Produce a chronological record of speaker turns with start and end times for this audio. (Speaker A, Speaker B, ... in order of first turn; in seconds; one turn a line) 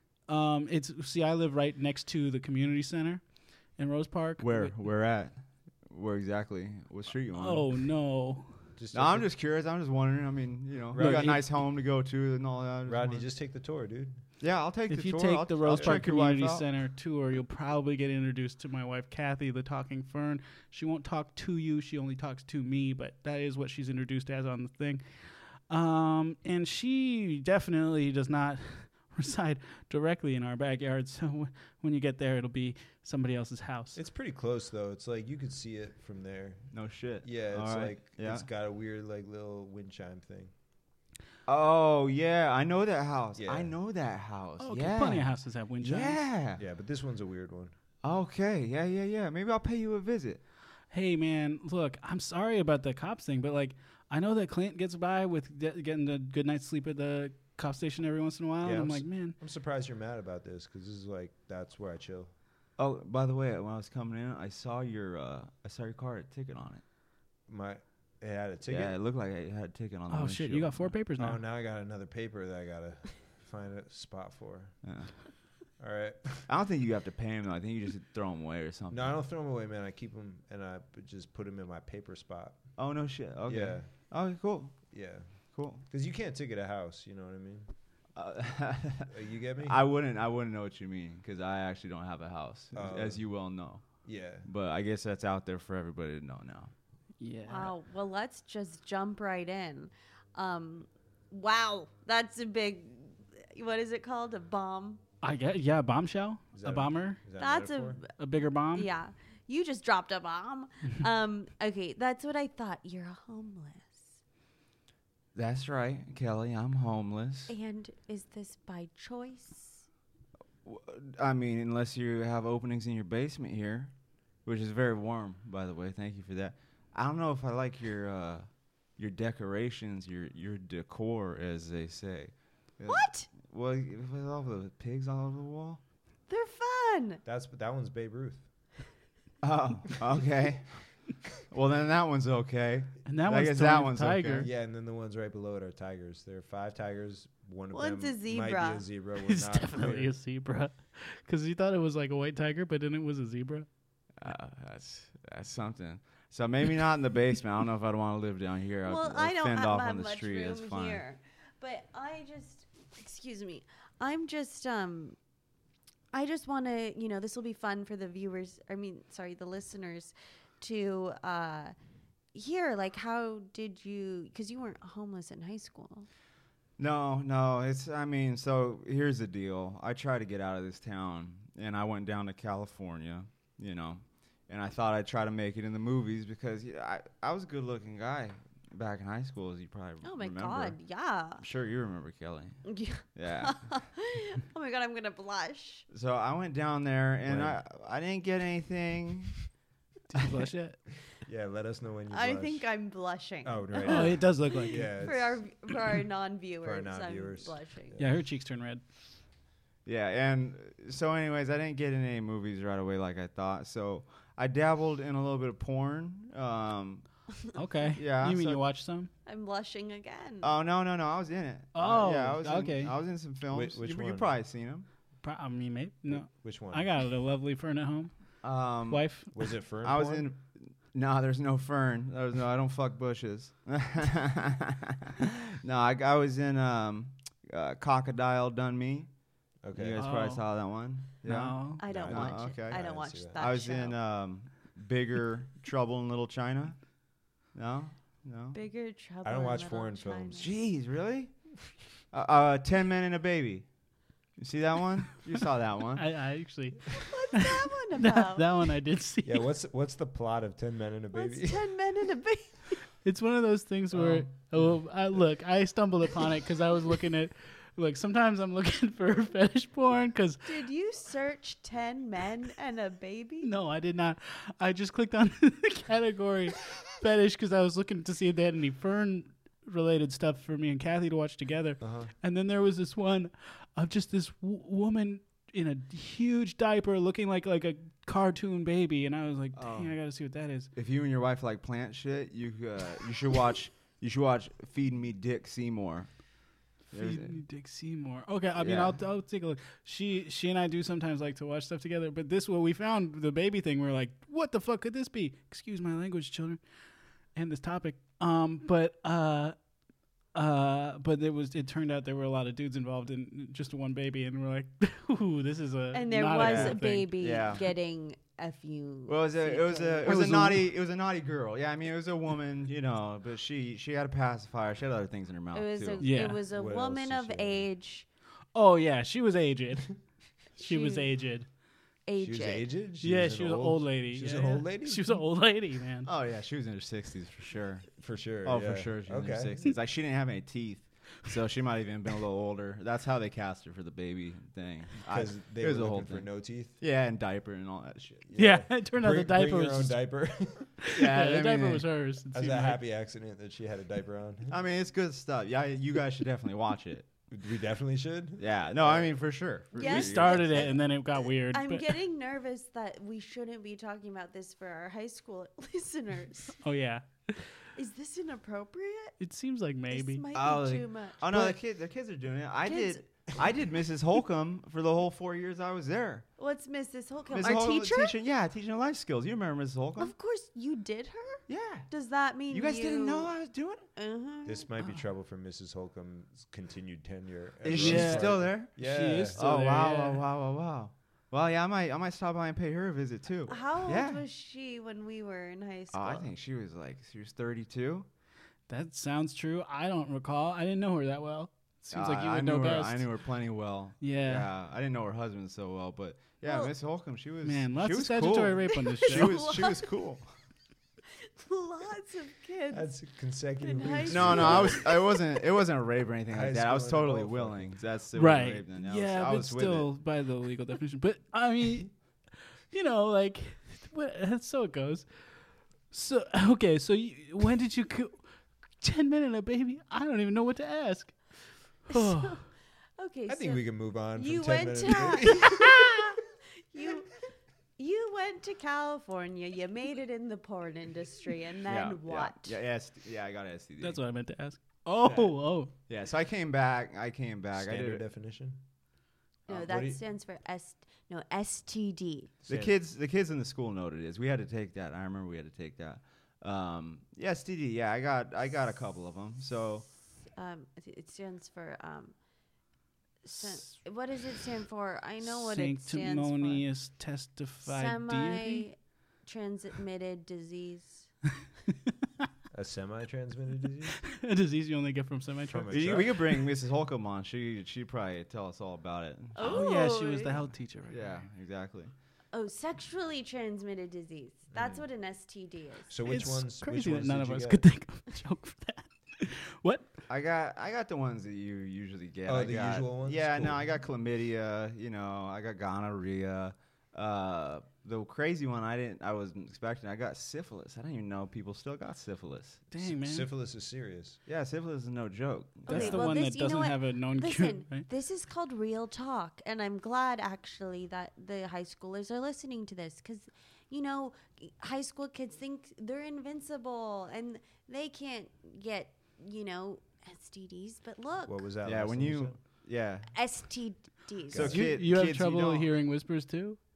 Speaker A: 0.3-4.7
Speaker B: 4.4-7.8
Speaker A: 7.3-8.5
Speaker C: 8.8-9.3
Speaker B: 8.9-13.2
Speaker C: 10.9-11.4
Speaker A: 11.0-11.4
Speaker C: 12.9-14.1
Speaker B: 14.4-16.7
Speaker A: 14.9-34.0
Speaker C: 15.7-16.0
Speaker C: 34.0-36.7
Speaker B: 36.7-38.5
Speaker C: 37.2-40.5
Speaker B: 41.5-46.6
Speaker C: 43.4-43.7
Speaker A: 44.6-46.2
Speaker C: 46.6-47.7
Speaker B: 48.0-50.4
Speaker A: 50.9-59.4
Speaker C: 58.6-62.3
Speaker B: 62.8-66.8
Speaker C: 67.5-69.0
Speaker B: 68.7-71.0
Speaker A: 70.1-71.4
Speaker C: 71.2-74.8
Speaker B: 74.8-75.1
Speaker C: 75.8-76.5
Speaker B: 76.5-79.1
Speaker C: 78.9-82.8
Speaker B: 82.8-84.8
Speaker C: 83.5-83.9
Speaker C: 84.9-85.3
Speaker B: 85.5-85.8
Speaker C: 85.9-87.7
Speaker B: 88.2-96.7
Speaker C: 89.1-89.8
Speaker C: 92.7-93.3
Speaker C: 94.0-94.5
Speaker A: 97.2-97.7
Speaker D: 97.5-105.0
Speaker A: 105.2-107.2
Speaker C: 106.5-108.0
Speaker D: 107.4-108.1
Speaker A: 108.2-108.9
Speaker D: 108.7-114.2
Speaker B: 115.3-117.5
Speaker D: 117.5-119.9
Speaker B: 120.6-135.8
Speaker D: 132.9-133.3
Speaker D: 136.3-137.2
Speaker C: 137.2-138.5
Speaker B: 139.4-144.5
Speaker A: 143.1-144.5
Speaker C: 144.4-150.1
Speaker D: 147.7-148.8
Speaker A: 149.2-153.7
Speaker B: 154.2-161.0
Speaker D: 158.8-165.2
Speaker D: 166.1-171.7
Speaker D: 172.3-176.1
Speaker B: 176.8-190.8
Speaker D: 190.0-191.4
Speaker B: 191.4-193.8
Speaker D: 192.7-195.8
Speaker B: 195.9-199.5
Speaker C: 197.2-197.6
Speaker A: 200.1-200.8
Speaker C: 201.2-202.7
Speaker D: 202.1-208.0
Speaker C: 203.4-205.5
Speaker A: 203.8-204.9
Speaker C: 206.6-208.1
Speaker A: 208.0-208.8
Speaker B: 209.8-217.3
Speaker A: 217.5-219.1
Speaker B: 218.0-218.6
Speaker D: 219.3-220.5
Speaker B: 220.4-224.9
Speaker A: 221.7-222.9
Speaker C: 223.5-224.3
Speaker A: 225.2-229.5
Speaker C: 226.1-226.9
Speaker B: 228.4-229.2
Speaker C: 229.3-230.3
Speaker B: 229.8-239.1
Speaker C: 239.6-240.1
Speaker B: 239.7-246.9
Speaker A: 240.0-240.5
Speaker A: 241.2-241.8
Speaker D: 241.8-244.0
Speaker C: 241.9-243.4
Speaker B: 247.5-248.6
Speaker D: 248.5-250.5
Speaker C: 249.2-250.5
Speaker B: 250.3-251.5
Speaker B: 252.1-253.7
Speaker B: 254.4-256.1
Speaker A: 256.0-259.4
Speaker D: 256.9-258.5
Speaker C: 259.2-261.7
Speaker D: 261.1-262.6
Speaker A: 263.0-270.5
Speaker C: 263.9-264.7
Speaker D: 270.4-273.5
Speaker A: 273.4-290.7
Speaker C: 281.8-282.1
Speaker B: 289.6-289.9
Speaker B: 290.8-296.1
Speaker A: 296.9-306.6
Speaker B: 296.9-297.4
Speaker B: 298.6-299.0
Speaker A: 307.4-309.6
Speaker A: 310.3-317.1
Speaker D: 315.9-320.2
Speaker B: 316.4-317.6
Speaker B: 319.1-326.1
Speaker A: 320.1-320.7
Speaker D: 325.5-328.1
Speaker A: 326.0-326.4
Speaker C: 326.5-327.7
Speaker A: 328.6-330.0
Speaker A: 330.6-331.5
Speaker D: 330.6-331.1
Speaker D: 332.1-332.7
Speaker C: 332.2-335.1
Speaker A: 333.0-336.1
Speaker B: 336.1-337.9
Speaker C: 338.0-339.7
Speaker B: 338.4-346.3
Speaker C: 345.1-346.8
Speaker B: 346.8-348.2
Speaker C: 348.2-350.8
Speaker A: 348.4-350.3
Speaker A: 350.8-352.8
Speaker B: 350.9-351.9
Speaker C: 352.3-354.5
Speaker B: 354.5-357.1
Speaker C: 357.3-359.2
Speaker B: 358.4-360.7
Speaker D: 359.7-366.6
Speaker A: 359.8-361.9
Speaker A: 366.6-367.5
Speaker D: 367.8-369.2
Speaker A: 369.2-370.2
Speaker D: 369.9-371.2
Speaker B: 370.3-376.3
Speaker A: 371.2-371.6
Speaker D: 372.7-373.1
Speaker D: 376.4-378.2
Speaker B: 377.3-380.1
Speaker D: 380.0-383.4
Speaker B: 381.5-381.9
Speaker B: 382.5-383.9
Speaker D: 384.0-384.7
Speaker C: 384.5-389.4
Speaker B: 387.6-388.8
Speaker A: 387.7-390.2
Speaker B: 389.3-394.2
Speaker D: 393.5-396.3
Speaker B: 395.9-398.1
Speaker A: 398.7-403.1
Speaker B: 401.9-410.3
Speaker A: 404.0-404.5
Speaker D: 406.4-406.7
Speaker A: 407.4-409.6
Speaker D: 408.7-409.9
Speaker D: 411.2-412.9
Speaker C: 412.7-414.8
Speaker D: 413.6-415.2
Speaker B: 414.1-419.9
Speaker C: 416.3-417.7
Speaker A: 418.1-421.9
Speaker A: 422.7-425.1
Speaker A: 425.9-432.5
Speaker D: 431.9-432.5
Speaker D: 433.0-433.6
Speaker C: 433.3-436.1
Speaker D: 434.1-437.2
Speaker D: 437.8-442.6
Speaker B: 441.7-444.0
Speaker A: 443.8-445.7
Speaker B: 445.1-448.0
Speaker C: 447.5-448.6
Speaker D: 449.5-452.3
Speaker C: 449.5-450.0
Speaker C: 452.4-452.7
Speaker B: 452.5-459.9
Speaker D: 460.3-462.2
Speaker D: 463.2-466.6
Speaker A: 465.3-468.7
Speaker D: 467.6-471.1
Speaker C: 472.5-474.0
Speaker A: 474.0-476.0
Speaker C: 475.5-476.2
Speaker B: 475.7-479.6
Speaker D: 479.4-480.4
Speaker A: 479.4-481.2
Speaker B: 480.9-481.9
Speaker D: 482.3-485.9
Speaker C: 484.5-484.8
Speaker C: 485.9-487.6
Speaker A: 486.1-489.9
Speaker B: 490.1-502.6
Speaker C: 492.3-493.6
Speaker A: 502.7-503.3
Speaker C: 502.8-504.2
Speaker B: 504.3-506.1
Speaker A: 505.7-507.9
Speaker D: 505.7-521.4
Speaker C: 521.3-522.4
Speaker B: 521.6-523.1
Speaker D: 523.1-524.6
Speaker C: 524.3-524.7
Speaker B: 524.3-525.7
Speaker A: 524.4-526.6